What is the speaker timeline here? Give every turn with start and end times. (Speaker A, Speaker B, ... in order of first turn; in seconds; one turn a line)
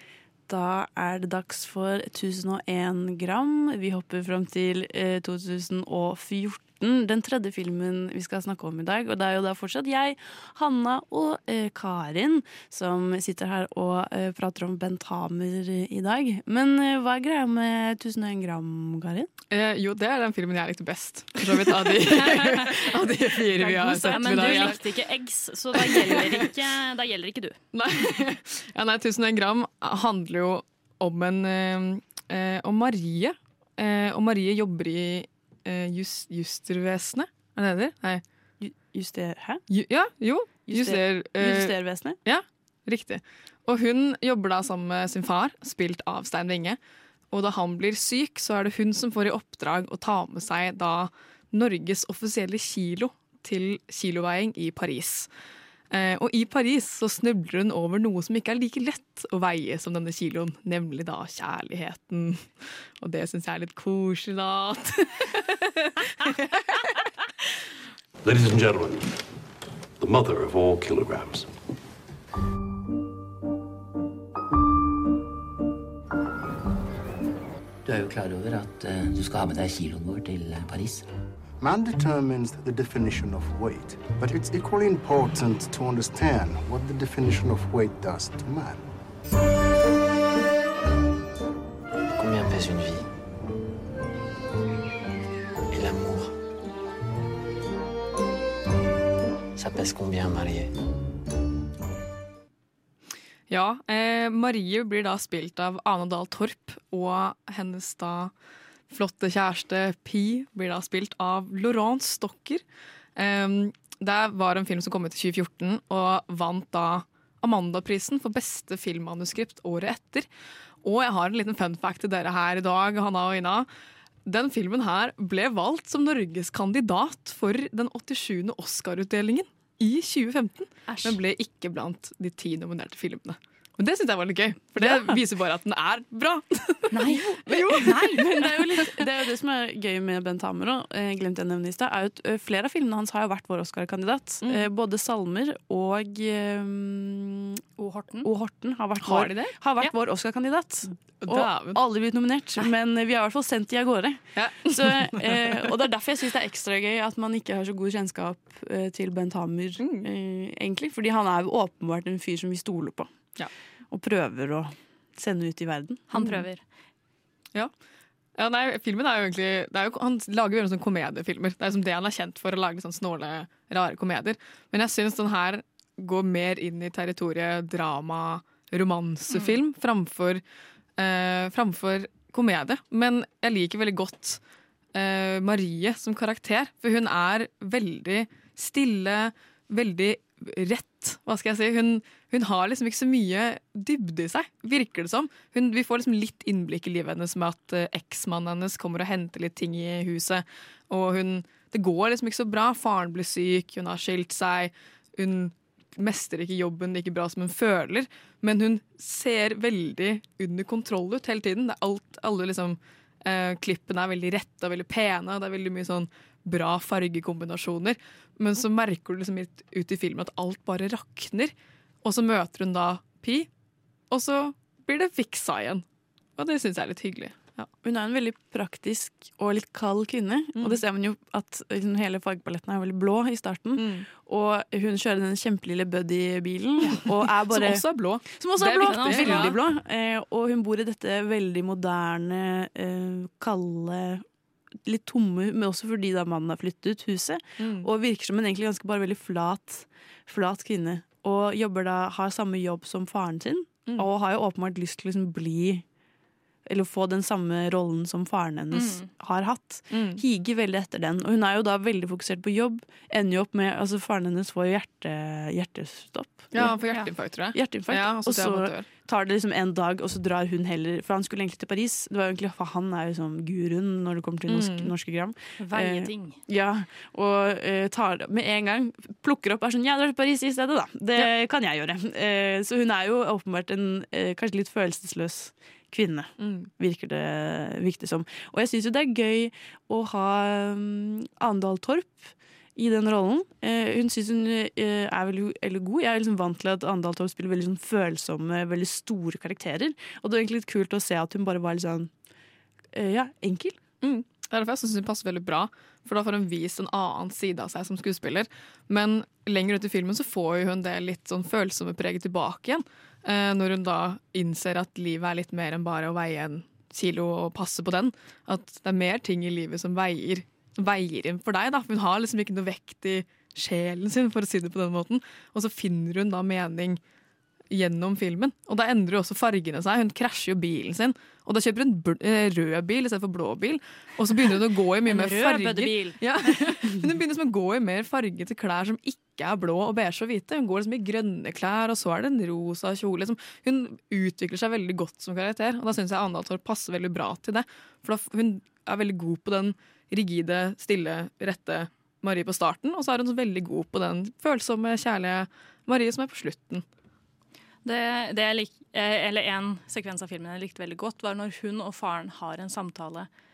Speaker A: 0.5-19.3
Speaker B: 19.5-24.8
Speaker C: 22.2-22.7
Speaker A: 23.4-24.8
Speaker C: 23.9-27.6
Speaker B: 25.8-26.4
Speaker B: 27.7-38.2
Speaker A: 38.6-39.6
Speaker B: 39.7-46.8
Speaker A: 40.7-42.2
Speaker B: 47.3-55.3
Speaker B: 55.9-62.5
Speaker B: 63.0-66.5
Speaker D: 68.2-69.2
Speaker D: 70.0-71.5
Speaker E: 77.8-81.0
Speaker F: 81.6-88.8
Speaker E: 92.2-93.1
Speaker E: 95.7-96.3
Speaker E: 99.6-100.7
Speaker B: 103.5-108.3
Speaker B: 108.9-112.6
Speaker B: 113.2-120.3
Speaker B: 120.8-123.7
Speaker B: 124.3-138.3
Speaker A: 134.8-135.2
Speaker C: 136.9-138.8
Speaker A: 137.5-147.6
Speaker B: 144.4-144.7
Speaker C: 147.8-148.3
Speaker A: 148.2-163.3
Speaker B: 149.0-149.5
Speaker B: 151.2-151.8
Speaker B: 154.4-155.9
Speaker B: 159.8-160.1
Speaker A: 163.9-166.4
Speaker C: 166.1-166.6
Speaker B: 168.4-180.4
Speaker B: 181.0-184.4
Speaker B: 184.9-221.5
Speaker B: 222.0-223.5
Speaker B: 224.1-225.8
Speaker B: 226.4-227.7
Speaker A: 227.8-244.2
Speaker B: 233.8-234.1
Speaker B: 237.0-239.6
Speaker C: 238.8-239.6
Speaker A: 244.8-255.8
Speaker B: 247.6-247.9
Speaker A: 256.7-266.8
Speaker C: 258.7-259.1
Speaker B: 259.9-260.2
Speaker B: 266.5-268.9
Speaker A: 267.5-302.1
Speaker B: 274.5-274.9
Speaker C: 275.6-276.4
Speaker B: 286.4-286.7
Speaker A: 302.9-303.8
Speaker B: 304.0-327.0
Speaker B: 327.7-356.9
Speaker C: 335.1-336.2
Speaker C: 357.9-363.3